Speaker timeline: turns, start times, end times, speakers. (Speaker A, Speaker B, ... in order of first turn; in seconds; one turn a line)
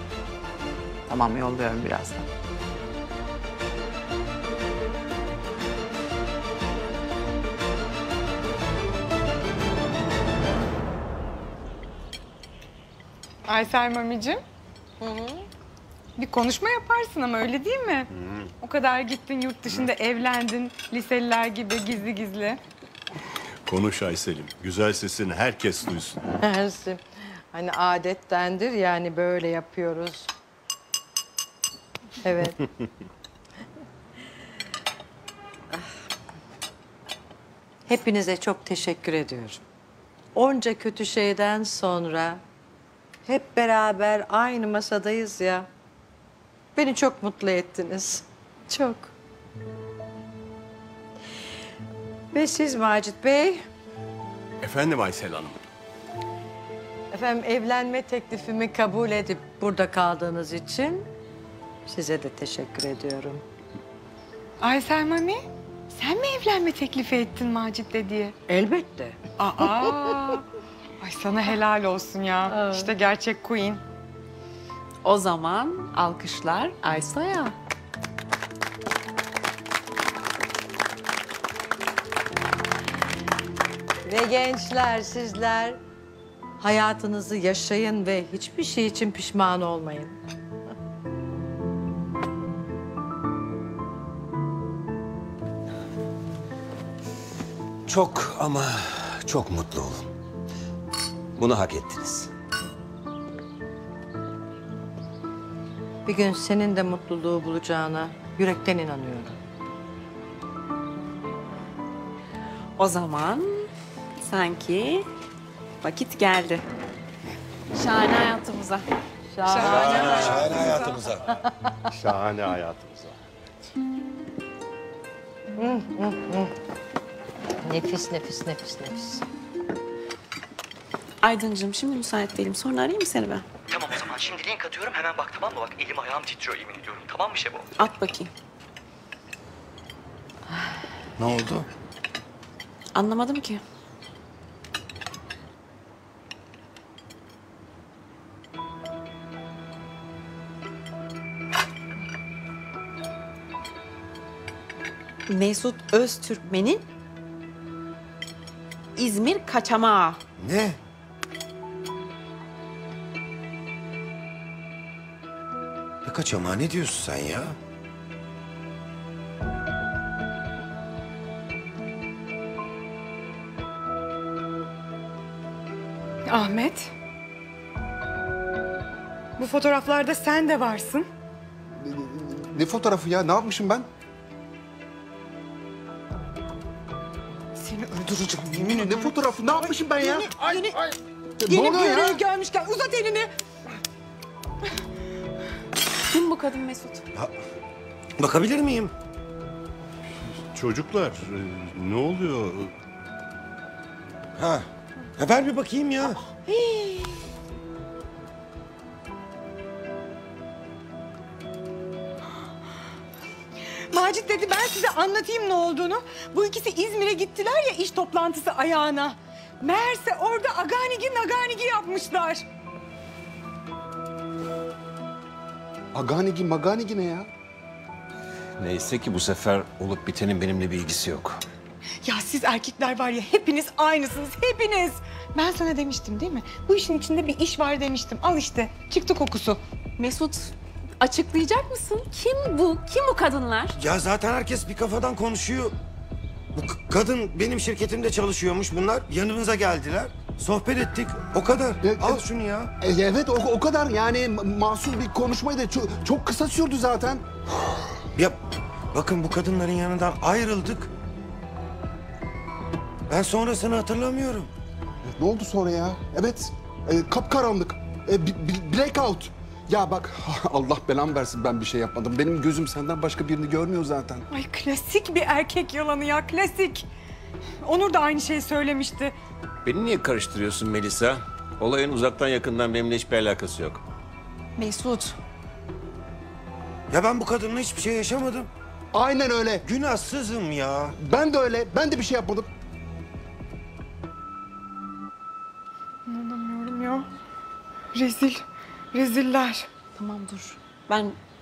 Speaker A: 1.1-2.2
Speaker B: 13.4-14.4
Speaker C: 15.0-15.4
Speaker B: 16.2-18.1
Speaker B: 18.6-22.6
Speaker D: 23.6-26.2
Speaker C: 26.4-27.0
Speaker C: 27.5-30.3
Speaker C: 32.2-32.6
Speaker C: 37.9-39.6
Speaker C: 40.3-42.4
Speaker C: 43.2-45.7
Speaker C: 46.7-49.1
Speaker C: 52.3-53.6
Speaker E: 54.6-55.5
Speaker C: 57.1-61.1
Speaker C: 61.9-63.4
Speaker B: 64.6-68.3
Speaker C: 68.5-69.2
Speaker B: 69.4-70.4
Speaker B: 71.0-73.8
Speaker C: 72.5-72.9
Speaker F: 75.0-77.5
Speaker C: 84.0-85.8
Speaker C: 86.6-90.2
Speaker E: 97.9-100.1
Speaker E: 101.4-102.3
Speaker C: 106.0-109.4
Speaker F: 112.8-113.7
Speaker F: 114.2-115.1
Speaker F: 115.8-116.6
Speaker F: 117.7-118.8
Speaker C: 119.3-120.8
Speaker F: 119.4-120.7
Speaker A: 119.6-121.2
Speaker D: 121.9-123.1
Speaker C: 125.6-126.5
Speaker C: 127.6-129.2
Speaker F: 131.2-133.4
Speaker G: 133.7-137.7
Speaker F: 137.8-138.3
Speaker A: 141.2-141.7
Speaker F: 142.9-143.6
Speaker F: 155.3-156.8
Speaker F: 158.9-160.2
Speaker A: 160.4-160.8
Speaker A: 166.0-167.6
Speaker B: 176.3-176.9
Speaker B: 179.4-181.0
Speaker H: 181.8-183.9
Speaker B: 187.6-189.1
Speaker H: 188.5-190.8
Speaker F: 190.0-190.7
Speaker H: 191.4-192.2
Speaker B: 191.5-193.3
Speaker F: 196.1-197.0
Speaker A: 198.2-198.9
Speaker D: 200.5-202.7
Speaker A: 204.4-204.6
Speaker A: 205.2-206.2
Speaker F: 206.4-207.2
Speaker B: 213.9-222.4
Speaker H: 225.9-227.3
Speaker E: 228.6-231.4
Speaker B: 232.0-239.6
Speaker F: 240.0-243.8
Speaker A: 243.8-245.8
Speaker A: 246.5-252.7
Speaker H: 251.8-252.2
Speaker H: 252.8-257.2
Speaker A: 258.9-260.9
Speaker A: 263.1-264.5
Speaker H: 265.1-274.2
Speaker B: 274.3-276.9
Speaker B: 277.6-279.1
Speaker E: 279.6-283.8
Speaker F: 284.6-285.1
Speaker A: 286.9-288.5
Speaker H: 288.9-289.7
Speaker A: 289.6-290.9
Speaker H: 290.9-292.5
Speaker B: 296.1-297.1
Speaker B: 297.9-299.7
Speaker F: 299.9-301.2